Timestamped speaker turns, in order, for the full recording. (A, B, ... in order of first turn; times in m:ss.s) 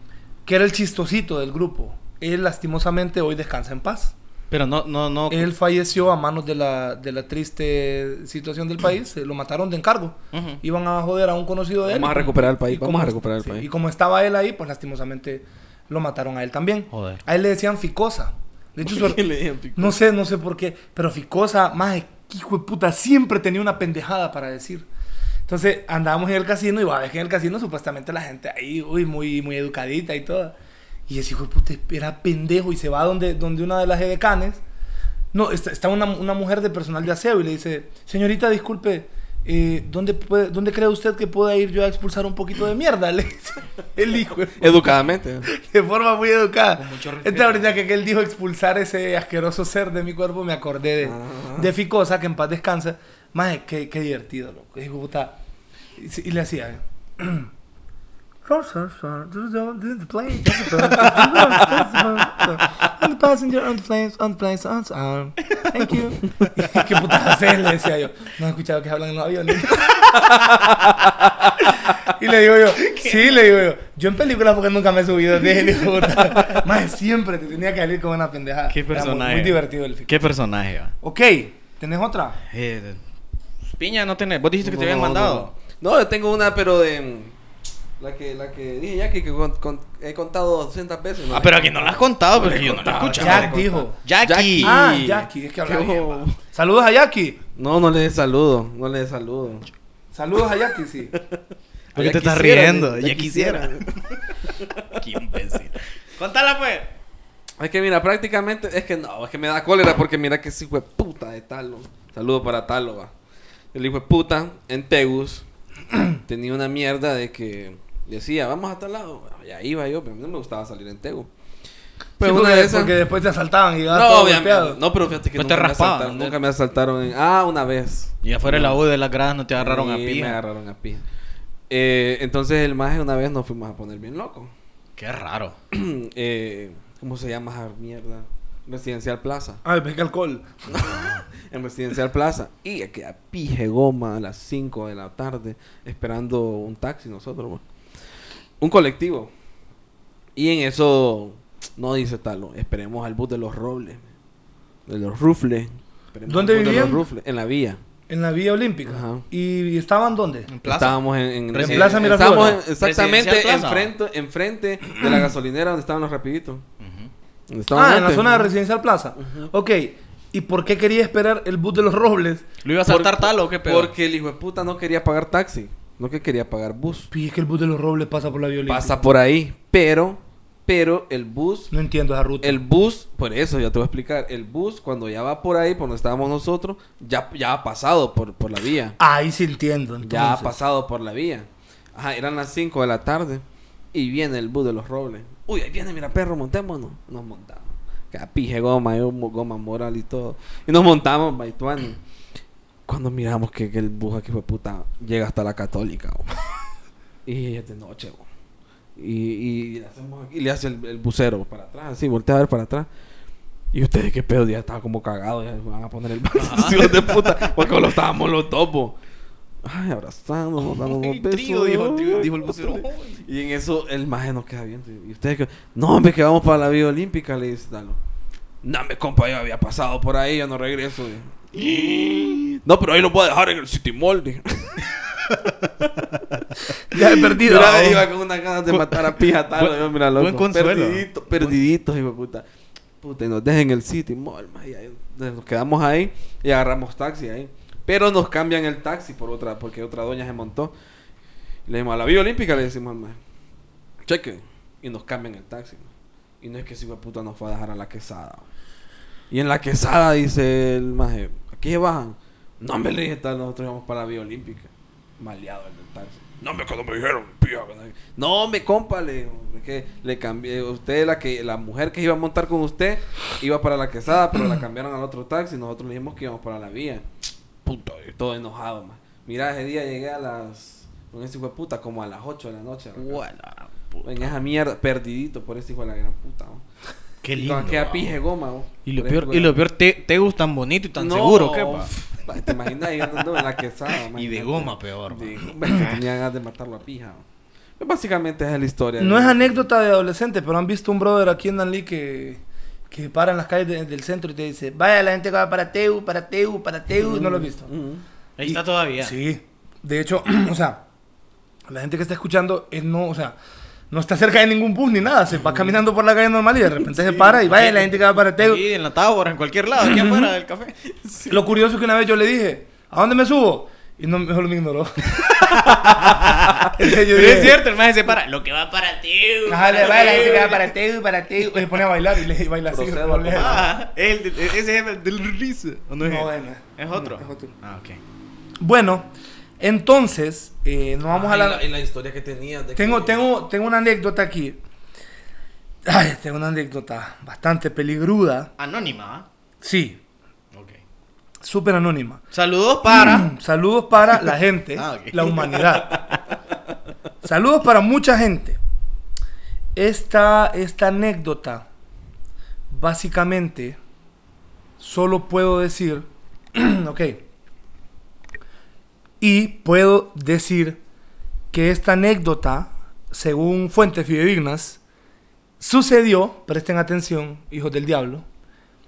0:00.4-0:04.1 A
0:04.5-0:05.5 B
0:05.3-0:19.2 A
0:10.3-0:10.6 B
0:11.8-0:13.7 C
0:16.9-0:17.2 B
0:18.8-0:20.0 C
0:19.7-0:24.8 A
0:25.5-0:30.5 A
0:31.1-0:34.6 A
0:35.3-0:44.9 A
0:44.6-0:45.5 C
0:45.4-0:55.4 A
0:46.8-0:47.8 B
0:51.0-0:51.7 C
0:56.0-0:57.5 A
0:58.4-1:10.1 A
1:01.0-1:01.6 C
1:11.9-1:20.1 A
1:12.9-1:13.5 B
1:18.7-1:20.9 B
1:21.0-1:22.4 A
1:22.4-1:23.0 B
1:23.7-1:25.5 B
1:24.6-1:27.4 C
1:28.0-1:36.4 C
1:31.3-1:34.8 B
1:33.2-1:34.0 A
1:34.6-1:37.4 A
1:37.6-1:39.7 C
1:40.1-1:41.1 A
1:41.9-1:44.0 C
1:41.9-1:44.2 B
1:44.6-1:45.0 C
1:44.9-1:46.9 B
1:47.6-1:53.1 C
1:53.7-1:55.4 C
1:56.2-2:01.3 C
2:02.2-2:02.9 C
2:02.2-2:04.8 A
2:03.9-2:08.8 C
2:05.4-2:06.4 B
2:08.2-2:10.4 B
2:09.6-2:11.0 C
2:11.7-2:14.5 C
2:15.0-2:15.6 B
2:15.7-2:19.6 C
2:19.6-2:20.9 A
2:20.7-2:27.6 C
2:28.6-2:29.3 C
2:30.4-2:34.1 C
2:34.9-2:37.8 C
2:36.3-2:37.0 A
2:38.1-2:40.5 A
2:38.9-2:39.2 C
2:40.5-2:43.9 B
2:40.6-2:46.6 C
2:41.6-2:42.6 A
2:46.8-2:47.1 B
2:47.5-2:48.5 C
2:47.7-2:52.4 A
2:49.2-2:49.5 C
2:52.6-2:53.9 B
2:52.8-2:57.1 C
2:57.1-2:59.1 A
2:58.7-3:01.7 C
3:01.7-3:02.6 A
3:02.4-3:09.0 C
3:09.0-3:10.6 A
3:10.0-3:22.0 C
3:22.9-3:26.3 C
3:27.2-3:28.2 C
3:29.0-3:32.9 C
3:33.7-3:39.0 C
3:36.3-3:37.5 B
3:39.6-3:48.0 C
3:40.6-3:43.2 B
3:48.6-3:52.0 C
3:52.0-3:52.4 B
3:52.6-3:54.9 C
3:56.8-3:58.1 A
3:57.1-4:02.4 C
3:58.7-4:01.6 B
4:03.0-4:10.7 C
4:11.6-4:13.2 C
4:14.0-4:18.5 C
4:19.3-4:37.1 C
4:37.6-4:43.2 C
4:43.0-4:44.3 B
4:44.0-4:46.6 C
4:47.2-4:48.1 B
4:47.3-4:49.6 C
4:48.8-4:52.1 B
4:51.0-4:57.2 C
4:54.1-4:56.0 B
4:57.8-4:59.6 C
4:59.0-5:07.7 A
5:07.0-5:08.0 C
5:08.4-5:09.1 B
5:08.4-5:10.8 A
5:11.7-5:13.4 A
5:13.9-5:18.6 A
5:16.8-5:20.8 B
5:19.9-5:20.2 A
5:21.0-5:21.4 C
5:21.3-5:26.0 A
5:25.3-5:30.7 B
5:26.7-5:27.6 A
5:29.5-5:33.7 A
5:30.0-5:30.4 C
5:32.7-5:33.7 C
5:33.4-5:38.0 B
5:36.0-5:37.5 A
5:38.6-5:41.6 A
5:41.1-5:43.2 C
5:42.8-5:44.6 A
5:45.8-5:48.5 A
5:48.6-5:49.2 B
5:49.6-5:50.0 A
5:51.4-5:52.2 A
5:52.3-5:53.3 B
5:52.9-5:56.0 A
5:54.1-5:56.0 B
5:57.2-5:58.6 A
5:59.8-6:01.6 A
6:02.7-6:03.8 A
6:04.8-6:07.2 A
6:09.2-6:10.8 A
6:11.5-6:14.8 A
6:15.6-6:18.2 A